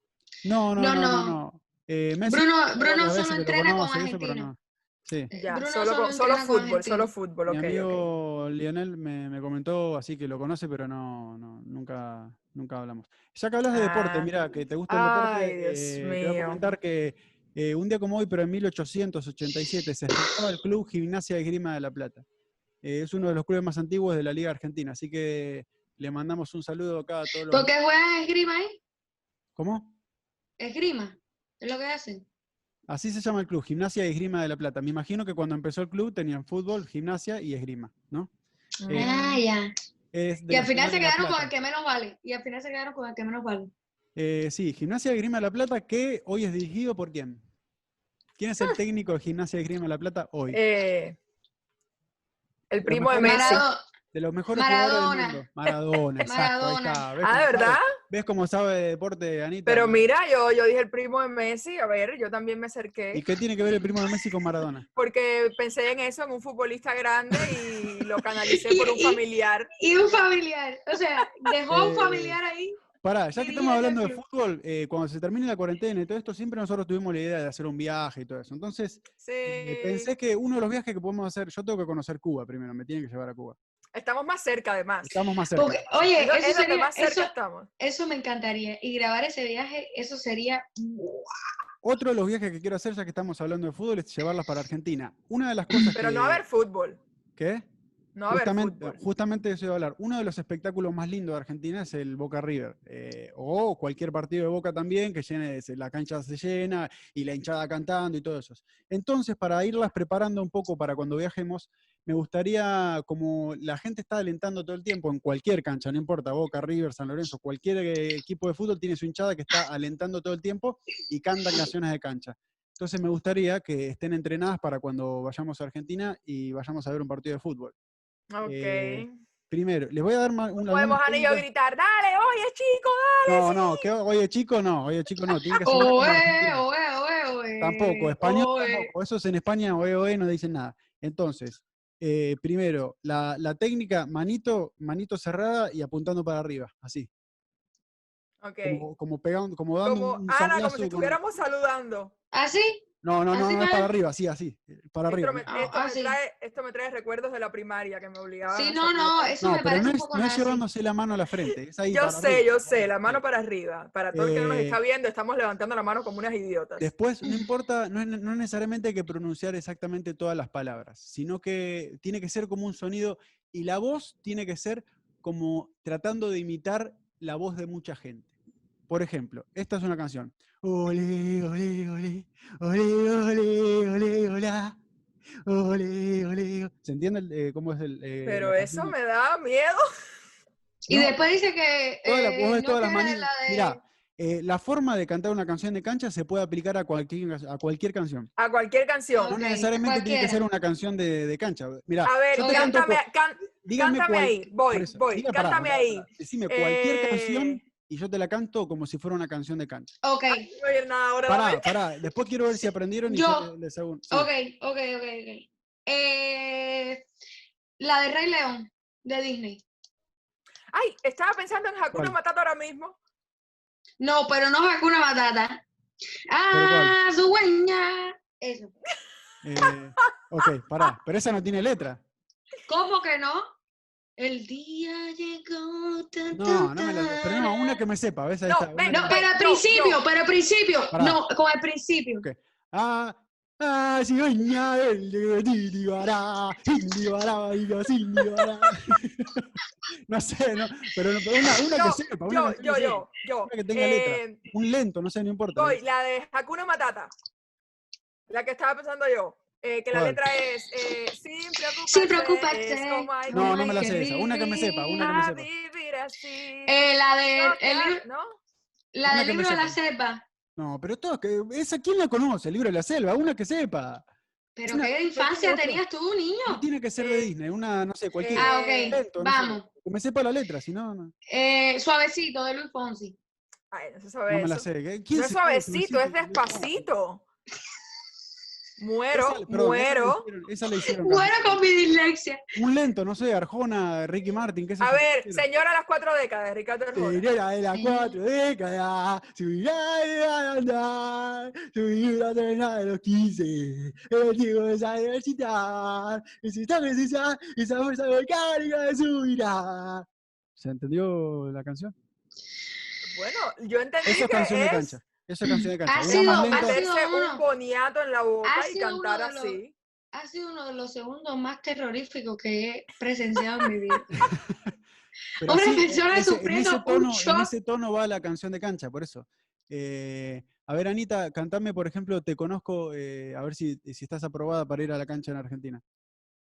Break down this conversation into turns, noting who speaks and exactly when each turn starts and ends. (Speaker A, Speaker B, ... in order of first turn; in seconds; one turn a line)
Speaker A: 0.4-5.3
Speaker B: 0.8-1.4
Speaker B: 2.3-4.5
Speaker B: 5.3-7.1
Speaker C: 5.3-8.1
Speaker A: 7.5-22.2
Speaker C: 13.7-14.3
Speaker C: 14.9-16.7
Speaker A: 22.8-27.7
Speaker B: 27.5-28.8
Speaker A: 29.6-29.9
Speaker B: 30.6-32.2
Speaker A: 32.9-38.3
Speaker C: 38.8-39.4
Speaker A: 38.9-39.1
Speaker B: 38.9-39.7
Speaker A: 40.1-41.5
Speaker B: 40.5-43.7
Speaker A: 44.2-47.4
Speaker A: 48.4-50.6
Speaker C: 50.5-51.2
Speaker C: 52.7-53.6
Speaker A: 52.8-60.1
Speaker B: 53.2-53.8
Speaker B: 54.5-55.4
Speaker B: 56.2-57.1
Speaker C: 57.2-57.9
Speaker C: 59.7-63.2
Speaker A: 63.1-64.9
Speaker C: 65.0-69.7
Speaker B: 68.5-69.2
Speaker B: 69.8-72.8
Speaker A: 71.7-72.4
Speaker A: 73.0-83.6
Speaker B: 73.4-74.2
Speaker C: 79.2-80.1
Speaker C: 84.0-85.2
Speaker A: 85.0-85.8
Speaker B: 85.6-91.5
Speaker C: 86.2-87.7
Speaker A: 91.8-96.4
Speaker C: 95.9-97.0
Speaker A: 97.4-97.7
Speaker C: 98.2-99.0
Speaker A: 98.3-127.8
Speaker C: 128.3-129.1
Speaker A: 128.5-131.5
Speaker C: 130.6-133.8
Speaker A: 133.2-136.6
Speaker B: 135.7-138.9
Speaker A: 137.6-147.1
Speaker C: 148.4-148.9
Speaker A: 148.6-151.2
Speaker C: 149.8-152.1
Speaker B: 152.3-153.9
Speaker A: 153.0-155.5
Speaker C: 155.1-159.4
Speaker B: 155.5-156.2
Speaker B: 158.5-160.6
Speaker A: 159.4-163.2
Speaker C: 161.9-166.9
Speaker A: 164.1-164.8
Speaker A: 166.8-178.3
Speaker A: 178.9-184.8
Speaker A: 185.5-188.9
Speaker C: 188.2-189.8
Speaker B: 190.9-193.8
Speaker A: 190.9-191.1
Speaker A: 192.1-198.3
Speaker C: 198.4-199.4
Speaker B: 199.2-200.4
Speaker A: 199.3-203.0
Speaker C: 202.1-207.6
Speaker B: 202.4-202.7
Speaker A: 203.6-209.9
Speaker B: 210.0-210.5
Speaker C: 210.3-211.8
Speaker A: 211.3-214.3
Speaker B: 213.1-213.5
Speaker B: 214.1-217.1
Speaker B: 217.8-219.6
Speaker C: 220.7-223.0
Speaker B: 224.0-225.6
Speaker B: 226.3-228.7
Speaker A: 226.5-226.9
Speaker A: 229.4-232.0
Speaker B: 232.7-233.5
Speaker B: 234.2-237.8
Speaker A: 236.3-239.2
Speaker C: 238.5-240.0
Speaker B: 238.9-242.3
Speaker A: 240.9-241.2
Speaker A: 242.2-249.5
Speaker A: 250.1-255.8
Speaker C: 251.7-254.4
Speaker C: 255.6-257.1
Speaker C: 258.3-263.9
Speaker A: 259.9-260.2
Speaker B: 261.9-265.1
Speaker A: 263.3-265.5
Speaker C: 265.0-268.4
Speaker B: 266.7-268.0
Speaker B: 268.9-270.2
Speaker A: 269.1-269.8
Speaker A: 270.6-274.1
Speaker B: 274.6-276.6
Speaker A: 274.7-275.8
Speaker A: 276.5-281.1
Speaker C: 277.0-277.3
Speaker C: 278.2-279.0
Speaker B: 278.4-279.7
Speaker B: 281.3-283.1
Speaker C: 283.7-287.2
Speaker A: 284.3-286.9
Speaker C: 288.8-290.2
Speaker A: 289.1-291.6
Speaker B: 290.8-292.4
Speaker A: 292.6-295.4
Speaker C: 294.8-297.2
Speaker A: 296.9-310.1
Speaker B: 297.7-298.1
Speaker A: 310.6-311.9
Speaker C: 313.1-315.0
Speaker A: 314.0-316.8
Speaker B: 315.5-317.4
Speaker C: 316.1-319.7
Speaker B: 318.4-319.6
Speaker B: 320.1-324.1
Speaker C: 323.4-324.3
Speaker A: 324.2-324.7
Speaker A: 325.4-335.8
Speaker B: 325.4-327.5